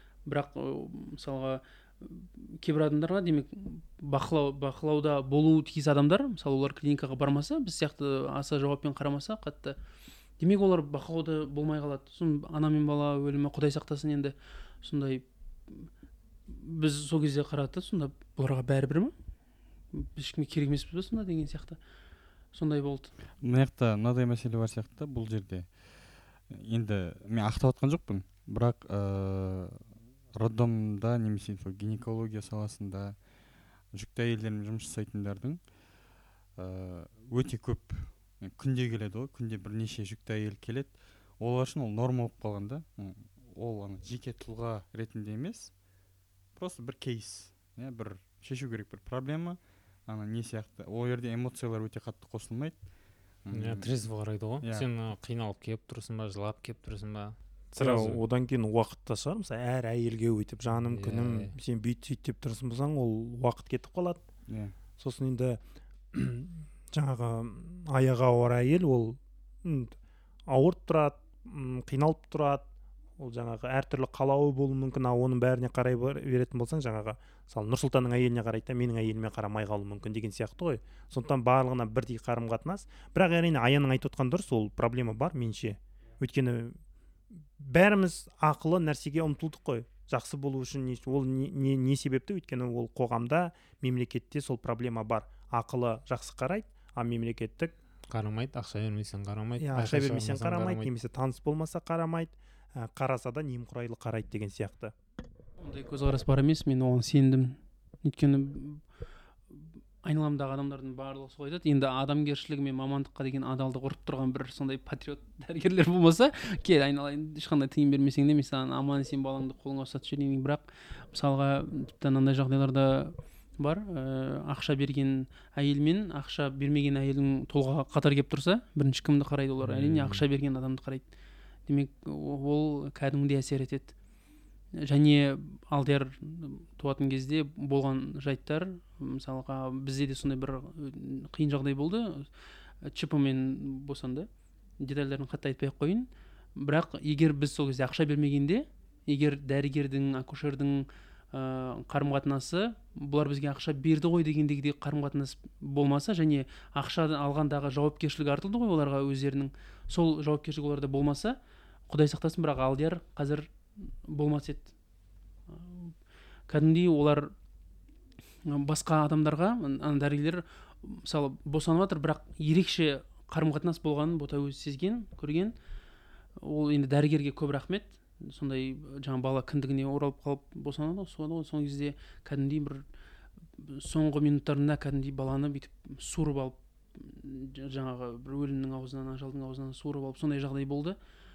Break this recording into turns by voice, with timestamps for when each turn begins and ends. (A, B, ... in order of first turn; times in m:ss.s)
0:00.2-0:09.8 A
0:10.4-0:15.9 A
0:16.5-0:19.1 A
0:19.9-0:21.8 A
0:22.5-0:23.1 A
0:23.4-0:25.7 B
0:26.5-0:29.8 B
0:30.3-0:33.2 B
0:33.9-0:35.6 B
0:36.6-0:45.7 B
0:46.6-0:52.8 B
0:53.4-0:53.9 B
0:53.5-0:58.2 C
0:54.6-0:54.9 B
0:57.8-1:04.2 D
1:00.9-1:01.5 C
1:04.5-1:04.7 B
1:05.0-1:05.6 D
1:06.1-1:10.0 D
1:10.5-1:12.6 D
1:13.2-1:26.8 D
1:27.6-1:37.7 D
1:38.1-1:40.9 C
1:39.6-1:44.9 D
1:45.6-1:48.8 A
1:49.5-2:11.0 A
2:09.6-2:10.2 C
2:11.7-2:13.9 A
2:14.8-2:22.3 A
2:22.8-2:24.3 A
2:24.8-2:41.4 A
2:41.9-2:44.7 A
2:45.5-2:45.9 A
2:46.5-2:47.3 A
2:48.4-2:55.5 A
2:56.4-3:02.8 A
3:03.6-3:11.0 A